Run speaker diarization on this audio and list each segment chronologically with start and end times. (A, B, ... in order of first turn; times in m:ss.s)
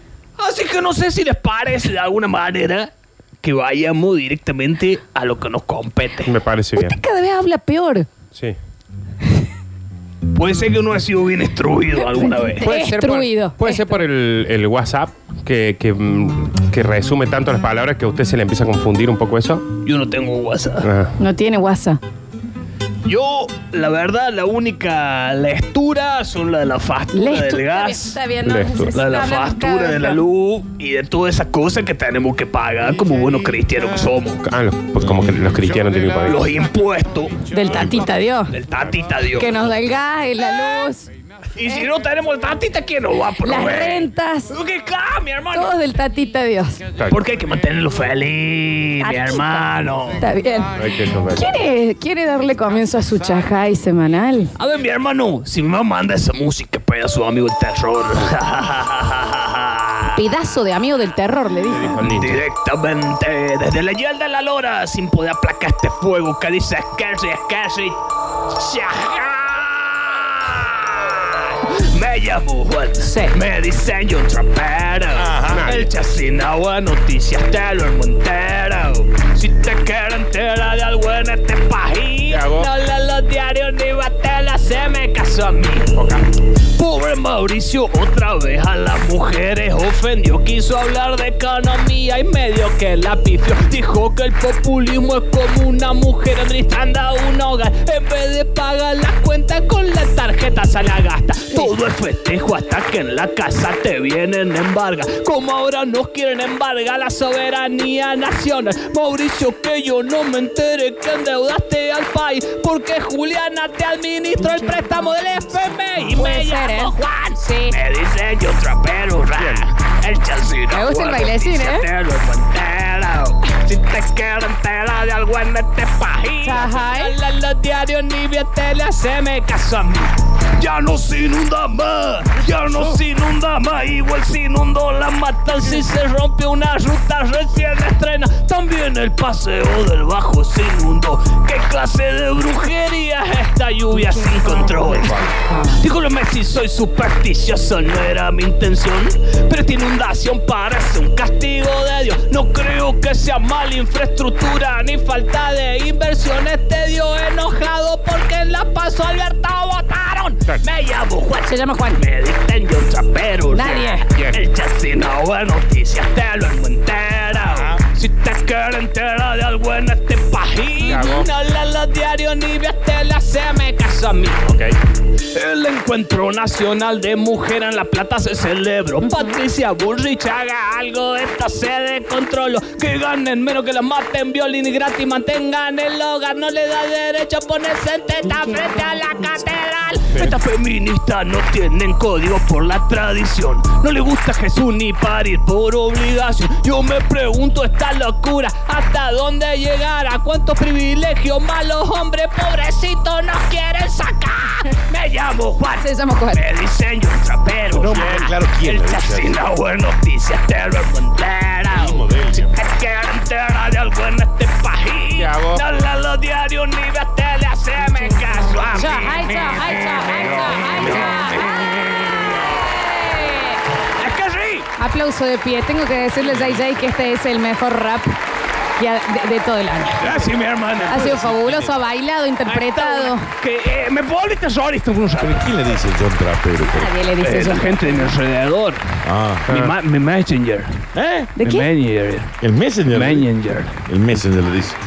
0:00.4-0:06.3 A
0:06.2-0:07.0 B
0:06.8-0:08.1 C
0:10.3-0:12.7 A
0:12.0-0:14.0 C
0:12.6-0:19.6 B
0:19.8-0:20.9 A
0:20.8-0:21.1 B
0:21.2-0:22.0 C
0:23.0-0:28.2 A
0:27.1-0:30.2 C
0:28.4-0:29.0 B
0:28.9-0:34.4 A
0:34.4-0:36.4 B
0:36.2-0:37.4 A
0:37.5-0:38.5 C
0:37.7-0:38.1 D
0:38.5-0:39.6 A
0:39.4-0:41.1 C
0:41.6-0:45.7 A
0:43.4-0:44.5 C
0:45.5-0:46.8 C
0:47.1-0:50.2 A
0:49.0-0:54.5 C
0:50.8-0:51.4 B
0:54.6-1:00.2 A
1:00.1-1:02.0 C
1:01.7-1:02.4 B
1:02.0-2:54.6 A
1:13.0-1:13.3 C
1:15.1-1:15.7 D
1:15.5-1:15.9 B
1:22.3-1:22.7 B
1:26.0-1:26.2 B
1:54.4-1:55.0 C
1:56.1-1:57.8 C
1:59.4-1:59.7 B
2:00.7-2:01.9 C
2:06.4-2:07.1 C
2:23.9-2:25.8 C
2:41.4-2:42.0 C
2:43.5-2:44.0 C
2:44.1-2:44.4 B
2:47.4-2:47.8 D
2:50.8-2:51.3 B
2:55.2-3:42.5 A
2:59.0-2:59.3 C
3:25.8-3:26.4 C
3:27.7-3:29.4 D
3:31.7-3:32.5 D
3:35.2-3:35.6 B
3:38.7-3:41.8 C
3:40.2-3:41.3 B
3:42.5-3:43.6 C
3:44.0-3:44.7 A
3:44.8-3:48.1 C
3:48.8-3:50.1 C
3:50.0-3:51.1 A
3:50.8-3:51.8 D
3:50.9-3:53.3 C
3:52.4-3:55.5 A
3:55.2-3:56.9 D
3:56.6-3:58.1 C
3:57.2-4:00.8 A
3:59.0-3:59.5 D
3:59.5-3:59.7 B
4:00.9-4:01.4 D
4:01.3-4:01.7 C
4:01.4-4:02.4 A
4:02.4-4:03.3 D
4:02.9-4:03.8 A
4:03.8-4:04.8 D